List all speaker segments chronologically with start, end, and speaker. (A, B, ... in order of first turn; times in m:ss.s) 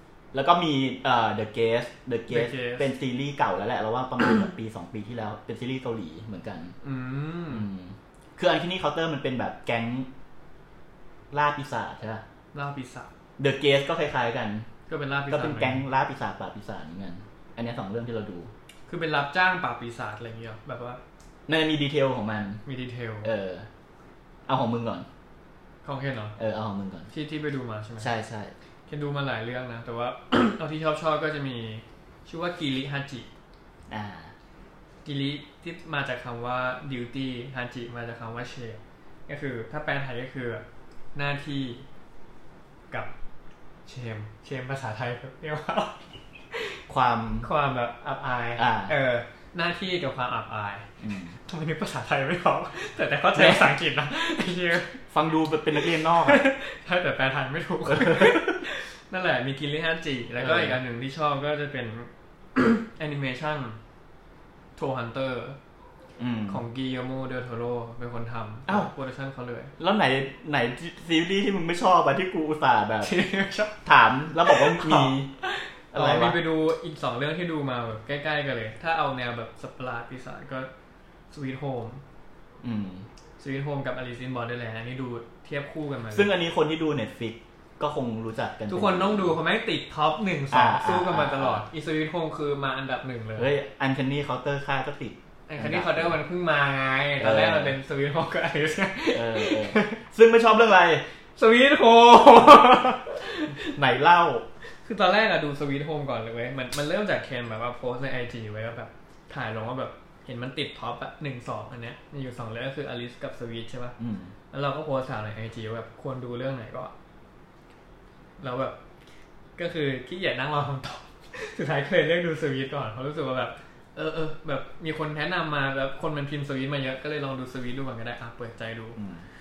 0:00.3-0:06.7 A
0:02.3-0:02.9 B
0:06.8-0:07.7 B
0:07.5-0:10.1 A
0:11.3-0:12.2 A
0:12.5-0:13.1 B
0:13.4-0:14.7 A
0:14.9-0:15.8 B
0:15.3-0:18.5 A
0:18.9-0:21.0 B
0:21.5-0:22.6 A
0:22.6-0:23.3 B
0:23.2-0:23.7 A
0:24.5-0:25.1 A
0:25.8-0:26.4 B
0:26.4-0:27.1 A
0:27.1-0:28.1 B
0:28.0-0:28.5 A
0:28.9-0:33.3 B
0:33.9-0:34.3 A
0:35.0-0:40.6 B
0:41.1-0:41.8 B
0:43.8-0:46.8 B
0:46.9-0:47.5 A
0:47.4-0:50.9 B
0:48.6-0:48.9 A
0:51.0-0:51.4 A
0:51.4-0:55.0 B
0:53.3-0:53.7 A
0:55.1-0:56.5 A
0:55.8-1:03.8 B
0:57.9-0:58.6 A
1:00.4-1:00.8 A
1:04.8-1:05.6 B
1:06.2-1:06.6 A
1:06.5-1:09.7 B
1:09.8-1:13.1 A
1:13.0-1:13.8 B
1:13.8-1:15.3 A
1:14.4-1:20.7 B
1:15.9-1:16.4 A
1:21.3-1:22.0 B
1:22.6-1:23.0 A
1:23.4-1:26.3 B
1:26.1-1:29.4 A
1:28.7-1:33.5 B
1:30.5-1:31.6 A
1:33.4-1:36.2 A
1:35.5-1:40.0 B
1:37.2-1:37.8 A
1:39.1-1:41.0 A
1:41.4-1:43.8 B
1:43.5-1:44.4 A
1:44.8-1:54.0 B
1:54.0-1:54.3 A
1:54.5-1:56.9 B
1:58.4-1:58.8 B
1:59.6-2:09.0 B
2:09.0-2:09.2 A